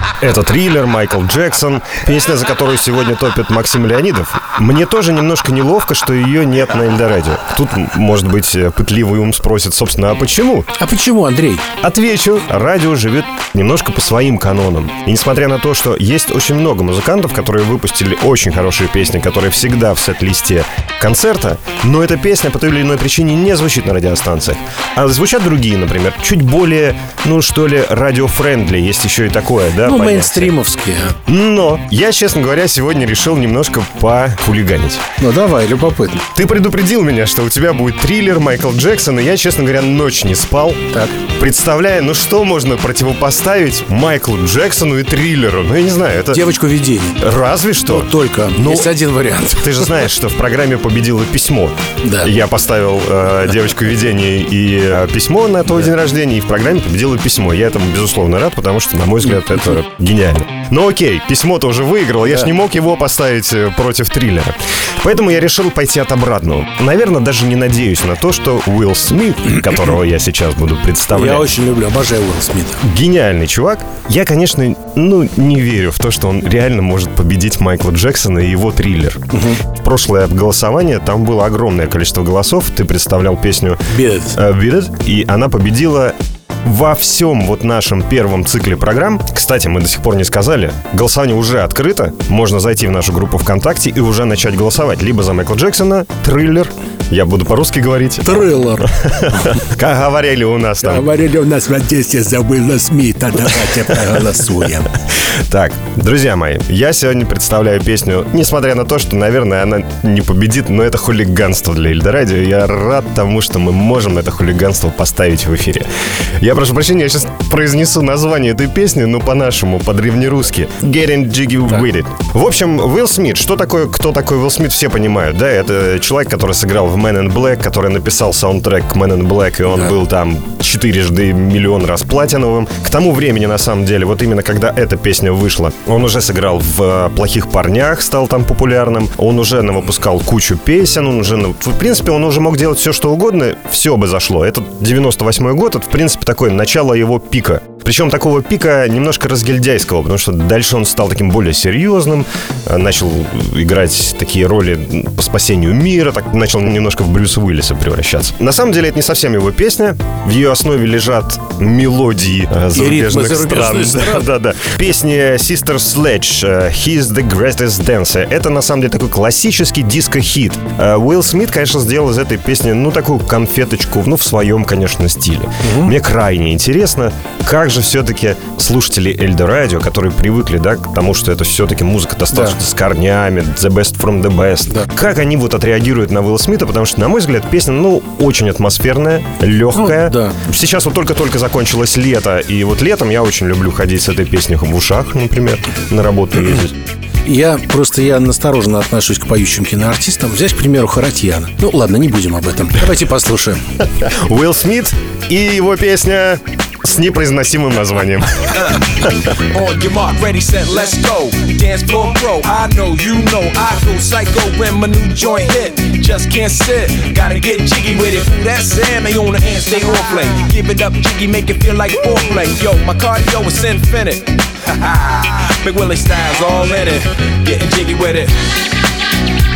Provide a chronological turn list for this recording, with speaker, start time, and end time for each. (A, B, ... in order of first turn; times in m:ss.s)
0:00.2-0:10.7 A
0:10.8-0:11.6 B
0:11.8-0:30.5 A
0:29.8-0:31.2 B
0:31.3-0:35.0 A
0:35.2-0:36.2 B
0:36.3-0:40.8 A
0:40.9-0:41.2 B
0:41.4-0:46.5 A
0:46.3-0:47.2 B
0:47.2-0:48.9 A
0:47.9-0:50.0 B
0:49.5-1:11.5 A
0:52.0-0:52.3 B
1:11.1-1:12.8 B
1:12.8-1:19.2 A
1:19.3-1:19.6 B
1:19.8-1:23.8 A
1:23.9-1:24.4 B
1:24.3-1:41.1 A
1:38.2-1:38.9 B
1:40.8-1:44.9 B
1:45.5-1:55.9 A
1:56.4-3:16.7 A
2:42.7-2:44.3 B
2:55.6-2:55.9 B
3:02.3-3:02.6 B
3:09.7-3:10.4 B
3:17.2-3:23.6 B
3:24.0-3:28.8 A
3:29.5-3:48.4 C